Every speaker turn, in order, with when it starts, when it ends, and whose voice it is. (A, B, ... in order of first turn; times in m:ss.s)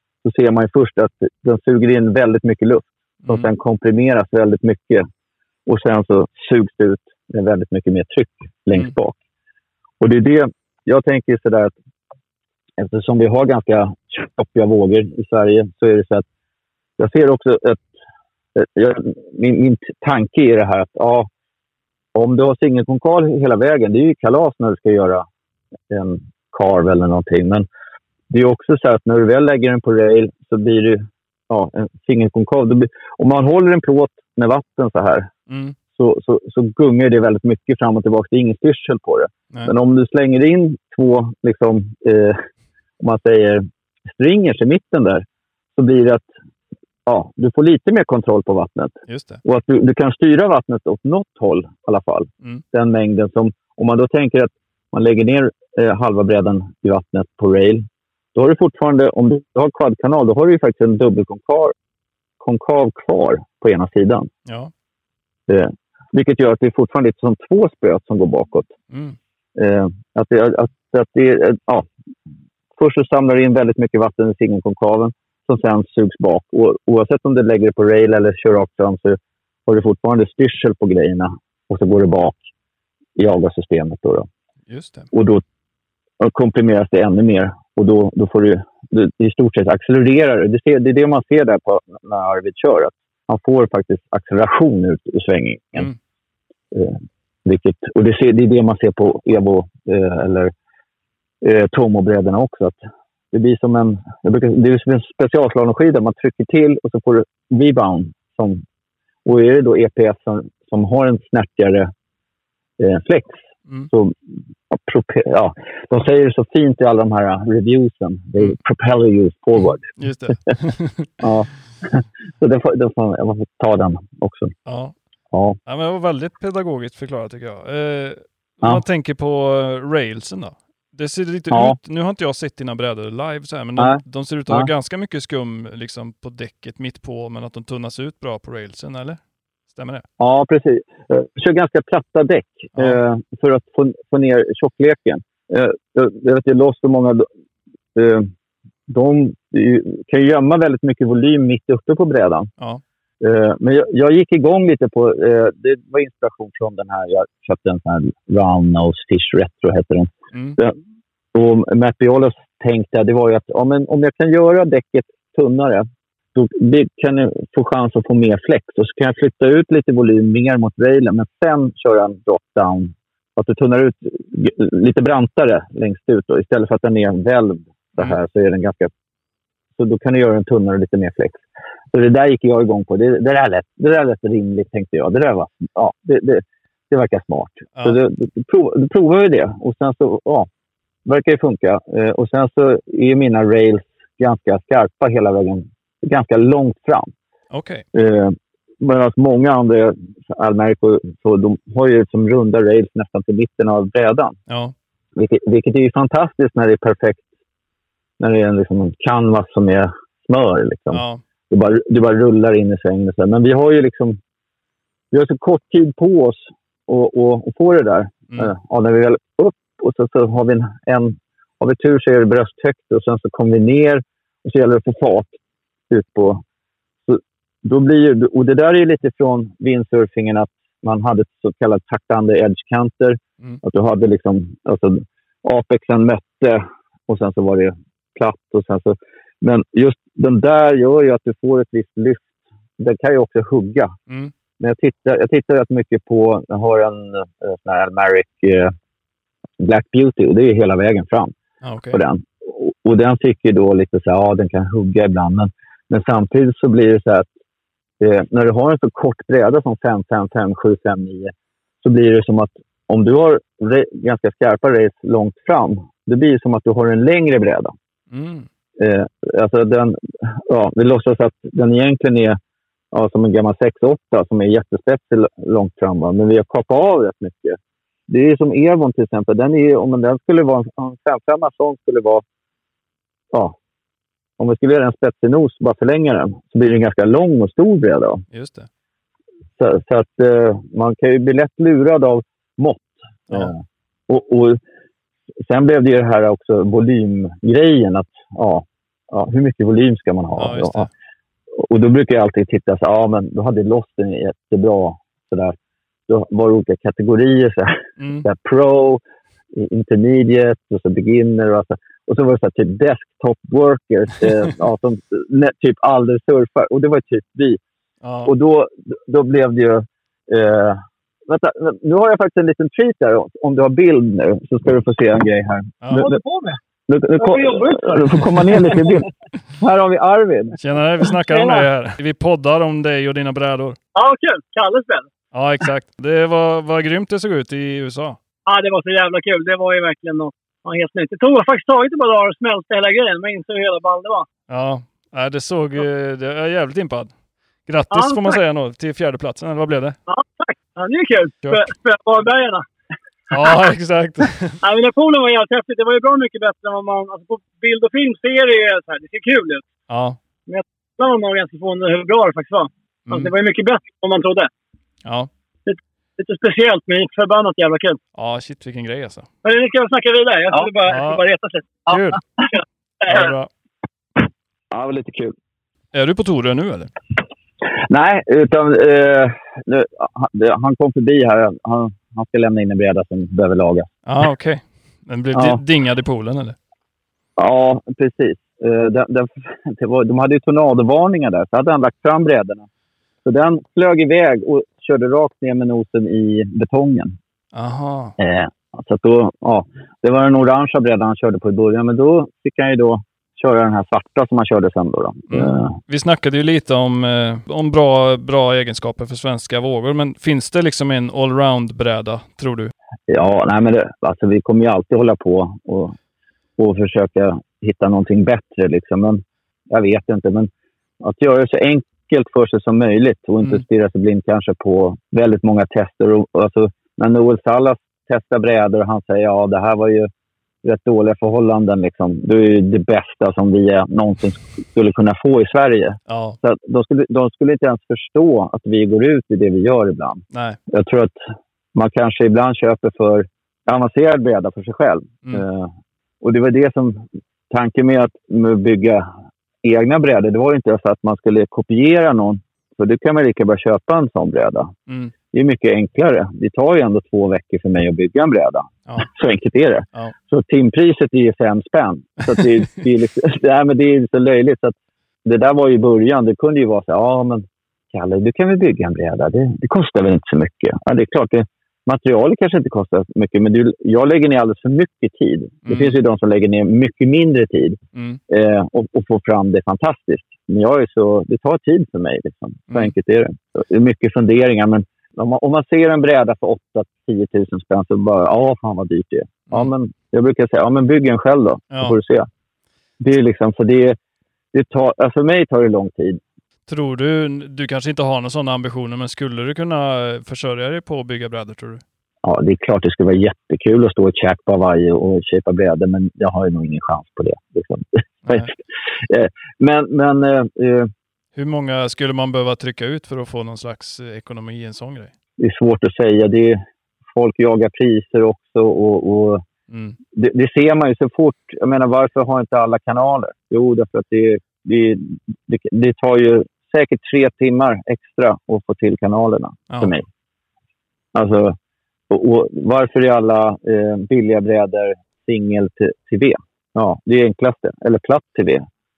0:00.2-0:05.1 A
0:05.7-0:09.2 A
0:10.0-0:11.7 A
0:12.8-0:16.3 A
0:17.0-0:17.9 A
0:18.6-0:21.3 A
0:22.2-0:25.2 A
0:25.9-0:27.6 A
0:28.3-0:35.3 A
0:35.5-0:35.8 B
0:36.0-0:42.4 A
0:43.0-0:45.2 A
0:45.8-0:46.3 A
0:47.1-0:48.9 A
0:49.1-0:49.4 B
0:49.4-1:01.7 A
1:02.4-1:04.3 A
1:04.5-1:04.7 B
1:05.5-1:08.7 A
1:08.9-1:09.2 B
1:09.6-1:11.9 A
1:12.8-1:22.4 A
1:23.2-1:24.3 A
1:24.7-1:25.1 B
1:25.1-1:25.4 A
1:26.2-1:35.9 A
1:36.7-1:40.5 A
1:41.4-1:42.8 A
1:43.3-1:48.6 A
1:49.3-1:51.9 A
1:52.8-1:53.4 A
1:53.9-1:54.2 A
1:54.7-1:59.8 A
2:00.0-2:01.1 B
2:01.2-2:04.5 A
2:04.7-2:04.9 B
2:05.3-2:05.6 A
2:05.6-2:19.2 B
2:11.5-2:11.8 A
2:13.8-2:14.7 A
2:19.7-2:20.0 B
2:20.2-2:27.3 A
2:22.8-2:23.0 B
2:28.0-2:28.3 A
2:28.9-2:32.5 A
2:33.2-2:40.8 A
2:40.3-2:40.6 B
2:41.3-2:58.9 A
2:59.8-3:01.4 A
3:01.9-3:10.5 A
3:11.1-3:17.1 A
3:17.5-3:17.8 B
3:17.9-3:24.4 A
3:24.5-3:24.7 B
3:25.2-3:27.3 A
3:28.2-3:34.2 A
3:30.9-3:31.2 B
3:35.1-3:45.3 A
3:45.9-3:46.4 A
3:47.1-4:03.9 A
4:04.6-4:08.7 A
4:09.6-4:11.3 A
4:11.6-4:12.0 B
4:11.9-4:17.3 A
4:18.0-4:27.7 A
4:28.1-4:28.5 B
4:28.8-4:32.4 A
4:32.9-4:42.2 A
4:44.4-4:48.2 A
4:48.3-4:48.7 B
4:49.6-4:54.6 A
4:55.4-5:00.9 A
5:00.4-5:00.9 B
5:01.6-5:05.6 A
5:06.1-5:09.0 A
5:08.0-5:08.3 B
5:09.5-5:17.6 A
5:18.0-5:18.3 B
5:18.3-5:26.1 A
5:25.9-5:26.6 C
5:26.9-5:29.1 A
5:27.2-5:29.0 C
5:29.6-5:30.6 A
5:30.6-5:33.8 B
5:31.2-5:31.6 C
5:34.0-5:35.1 C
5:35.3-5:38.2 B
5:38.5-5:44.3 C
5:44.5-5:47.1 B
5:47.7-5:50.0 B
5:47.9-5:48.4 C
5:50.1-5:52.6 C
5:53.3-5:54.6 B
5:54.6-5:59.6 C
5:59.9-6:00.2 B
6:00.5-6:04.5 C
6:05.0-6:05.3 B
6:05.7-6:08.0 C
6:08.2-6:09.3 B
6:09.4-6:11.9 C
6:10.9-6:11.2 B
6:11.9-6:12.2 B
6:13.0-6:13.5 B
6:14.7-6:15.3 A
6:15.9-6:16.9 B
6:17.8-6:23.9 A
6:24.1-6:26.6 B
6:25.3-6:25.6 A
6:27.4-6:32.7 A
6:33.2-6:37.2 A
6:37.5-6:38.2 B
6:38.2-6:45.8 A
6:45.3-6:52.7 B
6:53.1-6:56.0 A
6:56.6-7:00.5 A
7:01.0-7:10.1 A
7:10.6-7:21.2 A
7:16.1-7:16.4 B
7:20.3-7:20.6 B
7:21.8-7:29.0 A
7:29.6-7:34.7 A
7:34.9-7:35.1 B
7:35.3-7:57.8 A
7:55.7-7:56.0 B
7:58.0-7:58.2 B
7:58.3-8:12.3 A
8:02.7-8:03.0 B
8:11.7-8:12.0 B
8:13.0-8:14.0 A
8:14.5-8:16.2 A
8:16.7-8:21.8 B
8:22.2-8:30.9 A
8:28.3-8:28.5 B
8:31.4-8:35.1 B
8:35.4-8:36.6 A
8:37.1-8:39.4 A
8:39.7-8:40.0 B
8:40.1-8:50.0 A
8:51.1-8:51.6 A
8:52.1-8:58.6 A